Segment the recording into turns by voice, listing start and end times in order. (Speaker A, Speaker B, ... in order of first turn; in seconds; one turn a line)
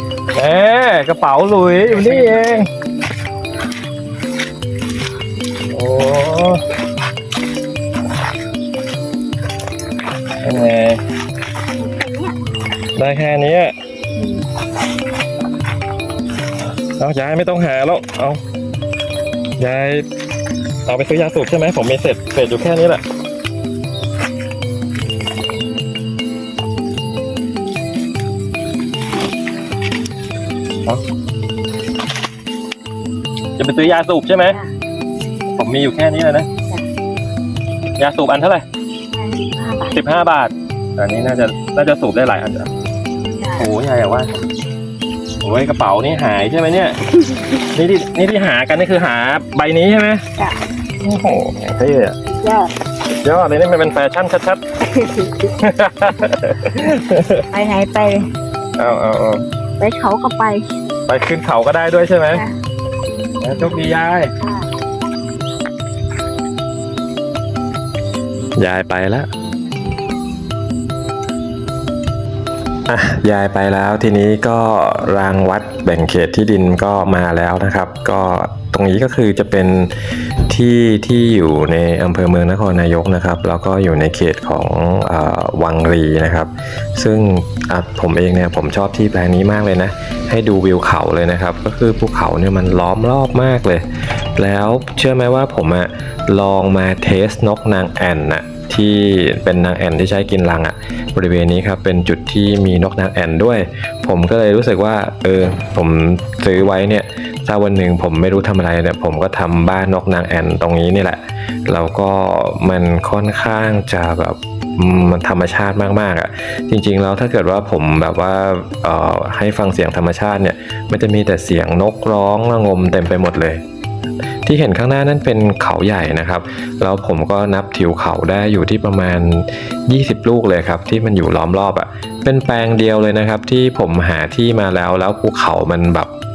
Speaker A: 0.3-2.7
Speaker A: 5.7-6.6
Speaker A: 10.4-11.0
Speaker B: 11.8-12.3
Speaker A: 12.9-13.7
Speaker B: 14.2-14.4
Speaker A: 17.0-18.4
Speaker A: 19.6-20.0
Speaker A: 20.9-23.0
Speaker A: 33.6-34.6
Speaker A: 35.5-36.5
Speaker A: 38.0-38.6
Speaker B: 39.1-40.0
Speaker A: 39.9-42.7
Speaker B: 43.4-43.7
Speaker A: 43.6-44.3
Speaker A: 45.4-47.0
Speaker A: 47.7-50.2
Speaker A: 51.0-52.1
Speaker B: 52.3-52.7
Speaker A: 53.1-54.6
Speaker B: 54.8-55.5
Speaker A: 55.5-57.4
Speaker B: 57.5-58.3
Speaker A: 58.8-59.4
Speaker B: 59.8-60.6
Speaker A: 61.1-62.4
Speaker A: 63.4-64.3
Speaker C: 68.6-69.3
Speaker C: 72.9-93.8
Speaker C: 94.4-123.6
Speaker C: 124.4-136.1